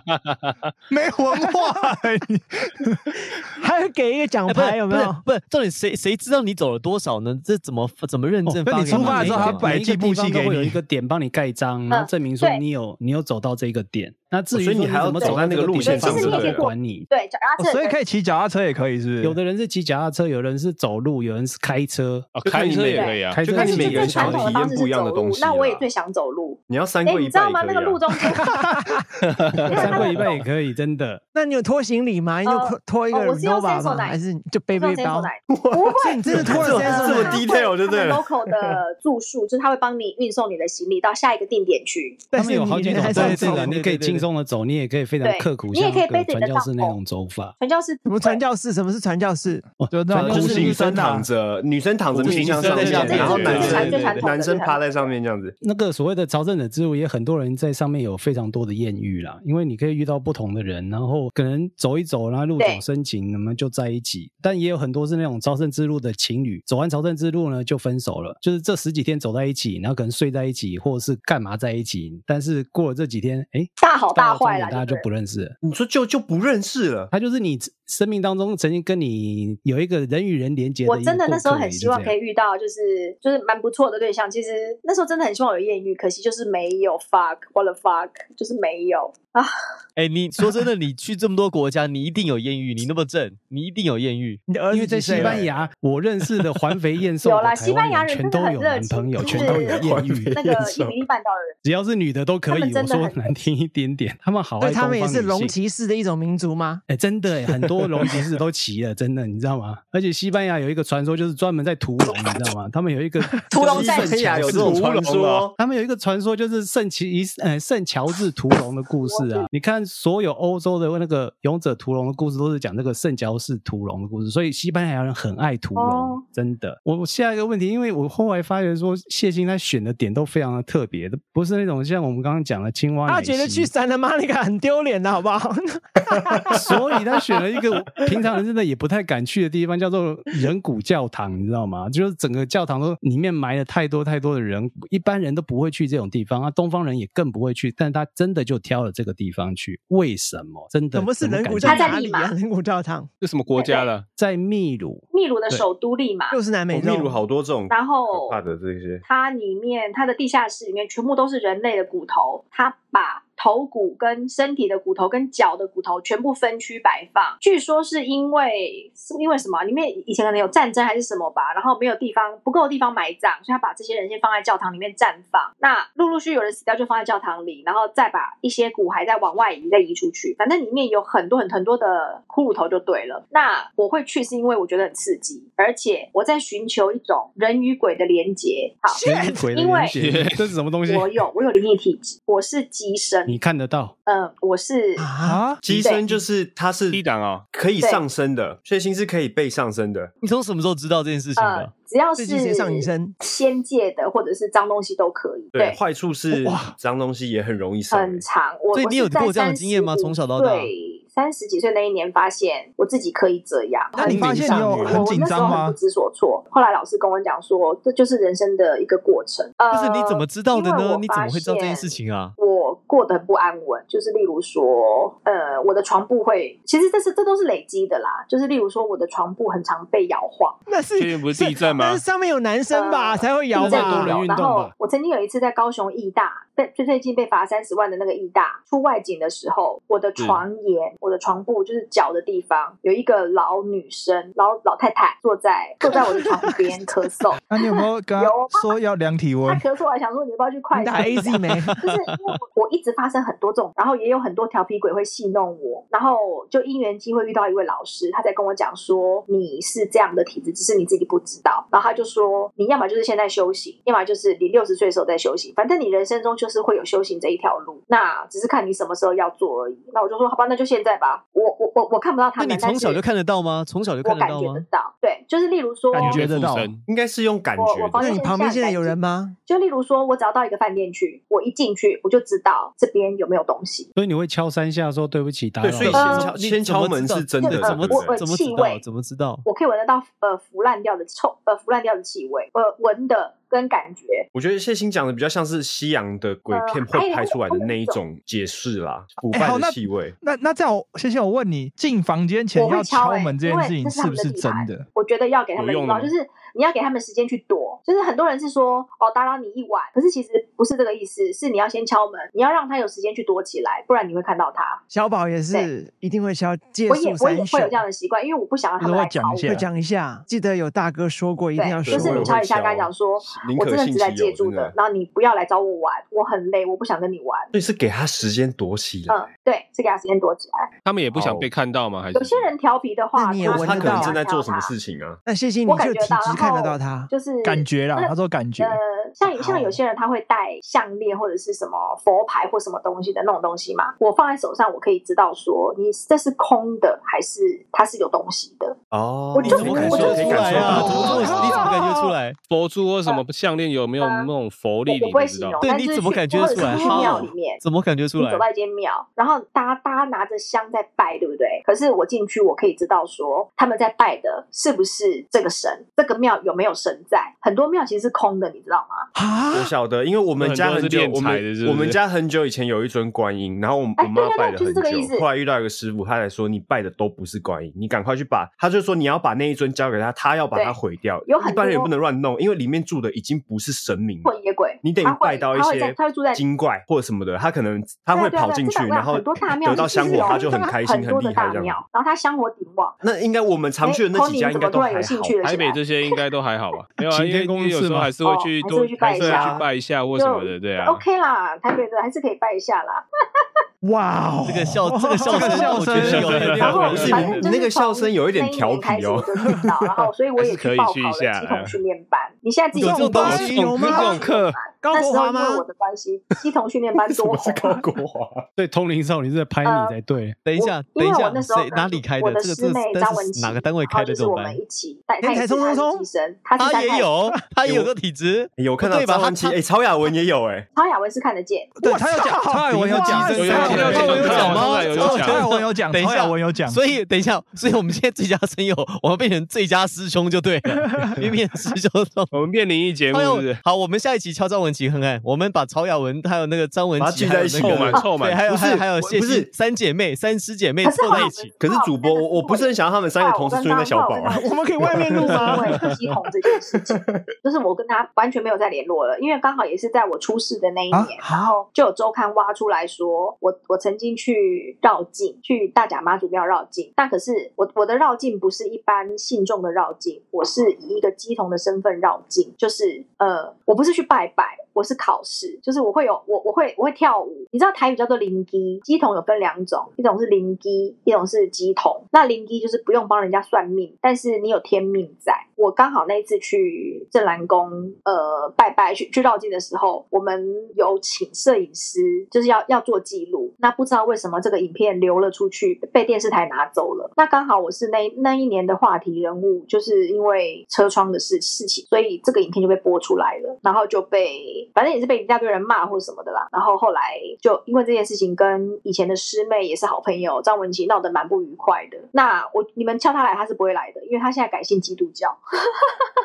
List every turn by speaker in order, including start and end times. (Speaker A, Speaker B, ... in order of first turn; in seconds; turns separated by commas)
Speaker A: 0.9-3.1, Speaker B: 3.4-5.2, Speaker C: 4.5-9.7, Speaker D: 8.4-17.1, Speaker A: 8.7-10.8, Speaker E: 11.9-12.6, Speaker F: 14.5-16.7, Speaker E: 15.2-18.0, Speaker A: 17.6-19.4, Speaker D: 19.2-22.3, Speaker G: 22.3-23.5, Speaker F: 22.4-25.8, Speaker E: 22.9-28.5, Speaker D: 23.3-24.6, Speaker F: 26.7-28.0, Speaker G: 29.3-30.1, Speaker E: 29.7-30.3, Speaker D: 29.7-31.2, Speaker B: 31.3-35.3, Speaker E: 32.4-34.2, Speaker E: 34.7-42.2, Speaker F: 35.5-38.7, Speaker B: 35.9-37.4, Speaker B: 42.3-43.7, Speaker D: 42.3-47.5, Speaker C: 43.0-44.3, Speaker E: 45.2-47.0, Speaker E: 47.6-48.4, Speaker B: 48.0-49.6, Speaker D: 49.8-50.9, Speaker A: 49.9-51.3, Speaker F: 50.1-55.6, Speaker G: 52.2-54.0, Speaker C: 52.2-54.3, Speaker E: 53.0-55.1, Speaker D: 55.6-75.5, Speaker E: 73.8-75.0, Speaker F: 75.6-77.1, Speaker D: 77.1-82.1, Speaker E: 80.8-89.5, Speaker C: 90.0-94.4, Speaker B: 94.5-95.5, Speaker D: 94.7-100.3, Speaker F: 95.1-95.5, Speaker E: 97.2-101.5, Speaker F: 99.2-101.0, Speaker D: 101.6-105.5, Speaker E: 102.5-103.3, Speaker B: 104.6-106.8, Speaker D: 106.9-114.8, Speaker E: 113.5-114.2, Speaker F: 113.5-115.5, Speaker G: 114.3-115.5, Speaker D: 115.6-133.7, Speaker E: 119.0-119.5, Speaker E: 125.8-126.2, Speaker B: 133.1-136.7, Speaker D: 136.5-151.9, Speaker B: 150.9-153.1, Speaker E: 151.6-152.3, Speaker G: 153.2-154.1, Speaker E: 153.5-153.9, Speaker D: 154.2-155.6, Speaker E: 155.1-156.4, Speaker B: 156.3-157.2, Speaker F: 156.7-159.0, Speaker E: 157.7-158.4, Speaker E: 159.0-190.0, Speaker B: 188.9-189.4, Speaker D: 189.0-191.2, Speaker G: 189.9-190.5, Speaker E: 190.9-193.4, Speaker D: 193.2-193.9, Speaker E: 194.1-195.1, Speaker B: 195.0-195.5, Speaker A: 195.2-195.6, Speaker F: 195.6-200.1, Speaker E: 195.7-196.0, Speaker G: 196.9-197.4, Speaker C: 200.2-201.7, Speaker E: 201.4-205.8, Speaker B: 202.2-203.2, Speaker F: 205.5-208.2, Speaker A: 206.3-206.7, Speaker E: 207.9-230.6, Speaker C: 208.7-210.7, Speaker B: 213.9-215.1, Speaker A: 214.0-215.8, Speaker D: 214.1-214.7, Speaker C: 219.7-222.3, Speaker B: 230.7-234.2, Speaker G: 230.9-232.0, Speaker E: 232.7-248.8, Speaker D: 233.5-234.7, Speaker B: 245.8-246.7, Speaker A: 247.5-249.7, Speaker E: 249.4-273.0, Speaker B: 250.7-251.8, Speaker C: 272.4-274.6, Speaker E: 274.0-276.3, Speaker A: 275.9-276.7, Speaker G: 276.0-276.8, Speaker F: 276.9-278.2, Speaker E: 277.6-283.9, Speaker B: 278.0-279.3, Speaker D: 283.9-286.1, Speaker F: 285.6-288.2, Speaker C: 285.9-289.4, Speaker E: 285.9-286.3, Speaker E: 287.4-288.8, Speaker E: 289.4-294.3, Speaker F: 294.3-300.1, Speaker E: 296.5-298.0, Speaker A: 299.2-304.9, Speaker E: 302.5-314.8, Speaker G: 305.6-306.1, Speaker B: 314.9-317.8, Speaker E: 316.9-319.6, Speaker A: 318.8-319.7, Speaker B: 319.4-322.4, Speaker E: 321.6-327.5, Speaker F: 321.8-324.7, Speaker F: 327.5-329.2, Speaker E: 329.1-330.7, Speaker G: 330.8-332.5, Speaker F: 331.1-331.5, Speaker E: 332.1-334.7, Speaker B: 333.1-334.2, Speaker F: 333.4-335.2, Speaker B: 335.2-337.1, Speaker E: 335.6-348.8, Speaker A: 337.4-338.8, Speaker A: 339.3-339.7, Speaker F: 348.9-351.7, Speaker E: 349.3-351.2, Speaker C: 349.4-352.4, Speaker A: 350.6-352.1, Speaker G: 352.5-355.6, Speaker E: 354.0-354.3, Speaker E: 354.9-357.6, Speaker C: 355.6-358.4, Speaker E: 358.2-369.1, Speaker B: 369.1-369.7, Speaker F: 369.5-391.8, Speaker G: 370.4-372.0, Speaker E: 374.0-375.2, Speaker E: 380.5-381.9, Speaker E: 384.2-386.4, Speaker E: 388.1-393.0, Speaker B: 389.6-390.7, Speaker F: 393.0-395.4, Speaker E: 393.8-395.8, Speaker G: 395.4-401.0, Speaker D: 397.1-398.1, Speaker E: 398.2-399.6, Speaker F: 399.2-399.7, Speaker E: 400.1-403.4, Speaker B: 403.8-405.9, Speaker C: 404.4-407.4, Speaker A: 405.2-406.9, Speaker G: 405.8-407.4, Speaker E: 406.6-417.8, Speaker F: 406.9-409.3, Speaker G: 410.4-411.8, Speaker C: 412.7-413.8, Speaker B: 412.8-415.6, Speaker G: 413.0-414.6, Speaker F: 417.1-418.4, Speaker D: 418.6-420.4, Speaker E: 419.6-419.9, Speaker C: 420.4-424.6, Speaker E: 420.6-427.2, Speaker B: 425.2-426.1, Speaker C: 426.6-429.6, Speaker F: 427.6-427.9, Speaker F: 428.6-430.7, Speaker E: 430.7-431.7, Speaker A: 431.8-436.8, Speaker B: 431.8-434.2, Speaker C: 432.8-442.4, Speaker G: 433.2-435.6, Speaker G: 442.3-443.6, Speaker C: 443.1-451.5, Speaker F: 447.0-449.5, Speaker G: 447.6-448.4, Speaker E: 450.8-516.1, Speaker F: 451.6-454.4, Speaker B: 454.3-455.8, Speaker B: 461.2-461.5